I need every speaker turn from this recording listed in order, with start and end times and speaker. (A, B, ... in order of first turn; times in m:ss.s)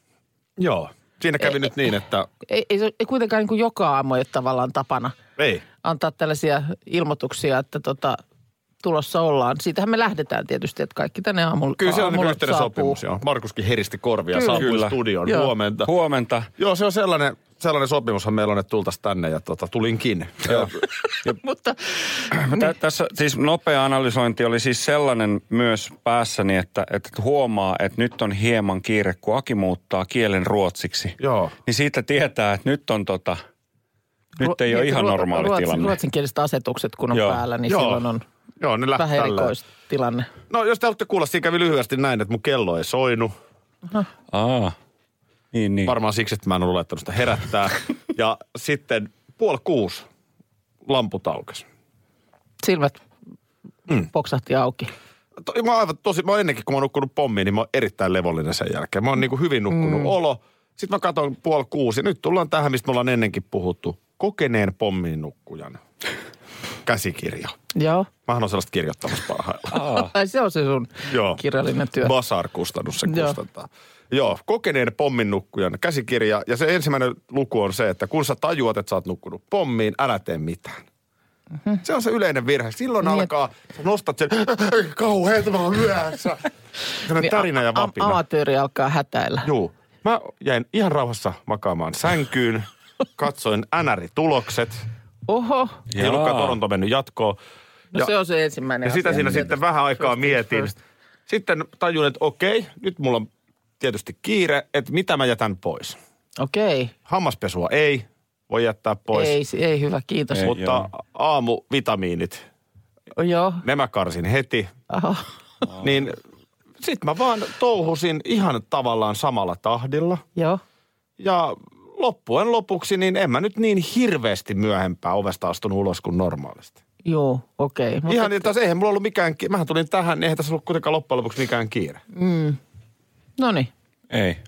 0:00.6-0:02.3 A
0:02.5-0:05.2 B
0:05.4-0:05.6 A
0:05.8-0:08.2 B
0:08.8-0:13.0 B
0:11.8-0:15.9 A
0:14.3-0:14.6 B
0:14.5-0:16.5 C
0:16.6-0:20.7 A
0:21.4-0:21.8 B
0:22.3-0:33.4 C
0:31.2-0:31.5 A
0:34.4-0:36.0 C
0:34.4-0:38.2 B
0:37.1-0:37.4 C
0:37.7-0:38.0 A
0:38.6-0:39.5 A
0:39.0-0:40.3 B
0:40.5-0:43.3 A
0:44.3-0:44.8 C
0:45.5-0:46.0 C
0:45.8-0:50.1 A
0:50.9-0:51.6 A
0:52.6-0:53.0 B
0:54.0-0:54.9 B
0:55.4-1:05.8 A
0:59.7-1:00.1 B
1:06.9-1:07.6 A
1:07.8-1:08.1 B
1:08.3-1:09.8 A
1:09.7-1:12.1 B
1:09.8-1:10.1 C
1:11.0-1:11.4 A
1:12.0-1:20.8 A
1:13.1-1:13.4 B
1:21.8-1:26.5 A
1:23.0-1:23.3 B
1:27.0-1:28.2 A
1:27.2-1:29.5 B
1:29.4-1:32.7 A
1:33.2-1:34.8 A
1:35.3-1:35.8 B
1:35.9-1:36.6 C
1:36.0-1:37.4 A
1:37.9-1:40.7 B
1:38.8-1:40.7 A
1:41.3-1:43.3 A
1:43.8-1:46.0 A
1:46.4-1:46.9 B
1:47.1-1:49.4 A
1:49.1-1:50.5 B
1:50.3-1:50.9 C
1:50.4-1:52.4 A
1:53.2-1:53.6 B
1:53.6-1:54.7 A
1:54.9-1:55.3 B
1:55.8-1:56.2 A
1:56.8-2:00.2 A
2:00.4-2:00.6 B
2:01.2-2:06.8 A
2:07.0-2:08.5 B
2:08.1-2:12.0 A
2:12.1-2:12.6 B
2:13.4-2:13.7 B
2:14.1-2:14.4 C